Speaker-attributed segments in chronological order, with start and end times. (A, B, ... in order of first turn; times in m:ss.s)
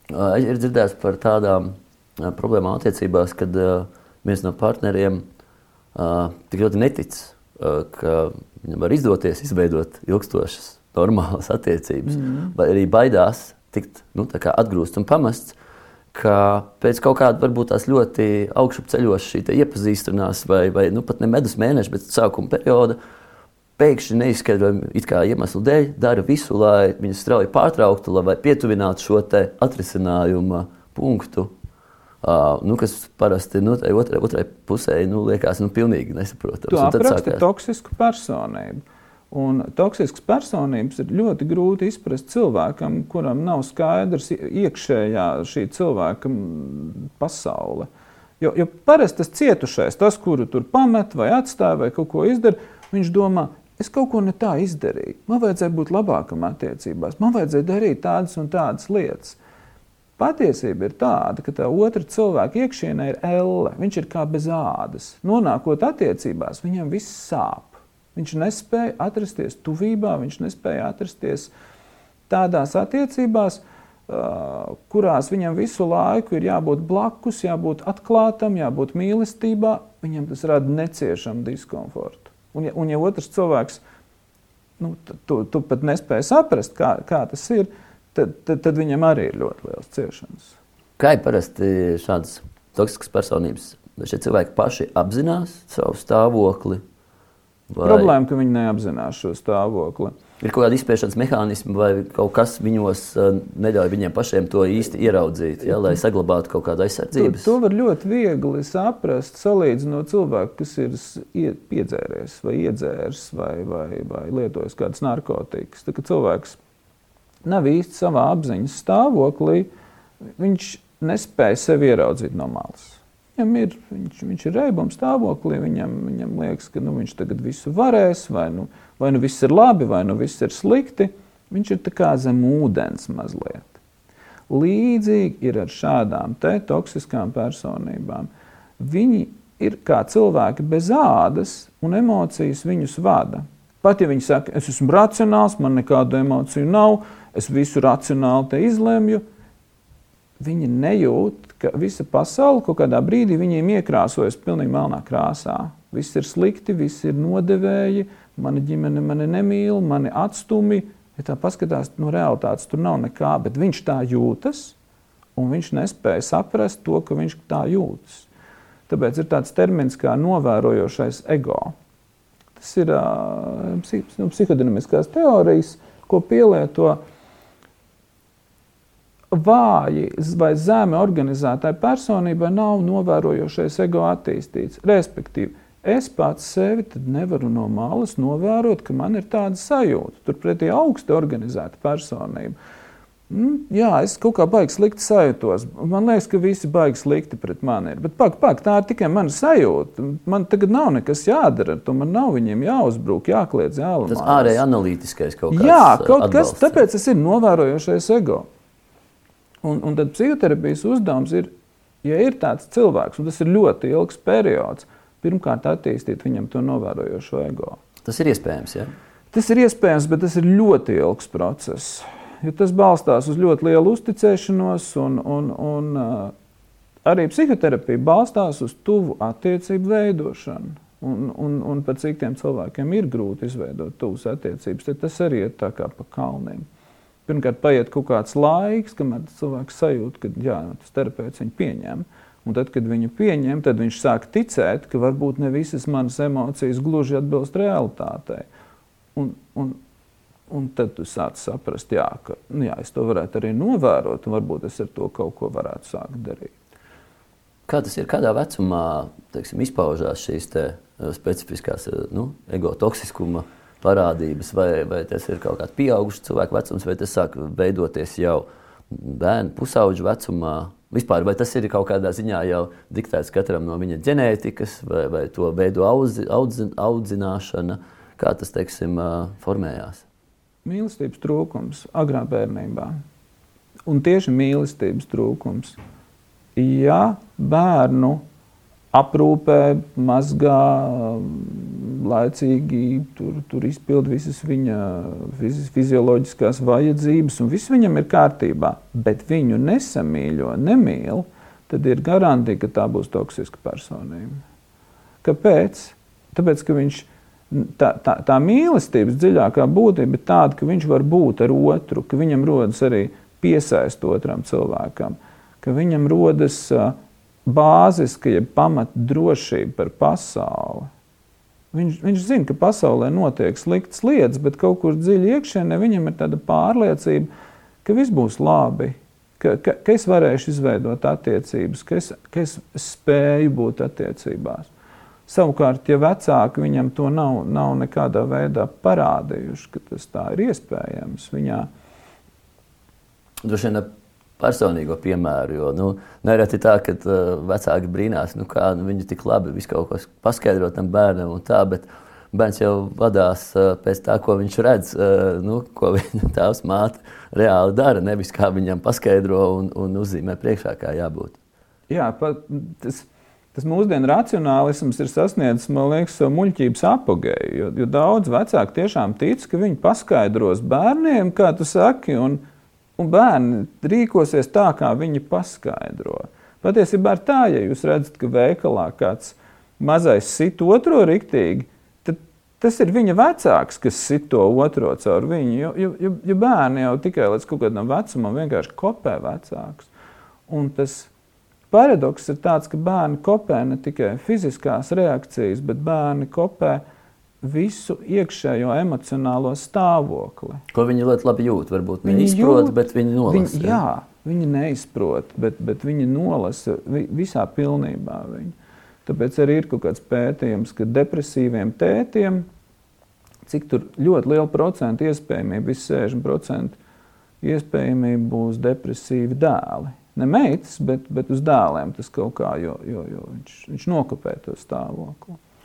0:00.1-0:05.2 A
0:06.0-0:15.6 A
0:12.1-0:12.5 B
0:16.1-0:23.0 A
0:23.8-0:31.5 A
0:32.2-0:37.4 A
0:36.7-0:47.9 B
0:48.4-0:59.4 B
1:00.2-1:11.5 B
1:12.3-1:23.8 B
1:24.8-1:30.6 B
1:31.0-1:36.8 A
1:37.7-1:38.1 A
1:37.8-1:40.1 B
1:40.4-1:47.5 A
1:47.2-1:56.6 B
1:57.4-1:59.7 B
2:00.4-2:13.8 B
2:14.5-2:29.2 B
2:30.4-2:44.8 B
2:45.4-2:48.3 B
2:48.9-2:51.7 B
2:52.6-2:57.0 B
2:59.3-3:12.6 B
3:13.3-3:24.6 B
3:24.1-3:26.8 A
3:25.5-3:28.5 B
3:29.6-3:31.5 B
3:32.0-3:37.8 B
3:38.0-3:38.9 A
3:39.3-3:46.3 B
3:47.0-3:56.7 B
3:57.3-4:08.5 B
4:09.2-4:09.8 B
4:10.5-4:16.6 B
4:17.7-4:40.0 A
4:40.6-4:43.0 B
4:43.9-4:45.8 B
4:46.6-4:48.2 B
4:48.9-5:04.4 B
5:05.2-5:20.9 B
5:21.7-5:27.3 B
5:27.8-5:34.7 B
5:35.3-5:41.7 B
5:43.4-5:43.9 A
5:44.4-6:01.4 A
6:01.9-6:12.4 B
6:13.0-6:29.9 B
6:30.5-6:31.1 B
6:31.7-6:36.8 B
6:37.4-6:40.6 B
6:40.7-6:43.8 A
6:42.0-6:48.6 B
6:49.1-6:52.4 B
6:53.5-6:56.8 B
6:57.4-7:05.4 B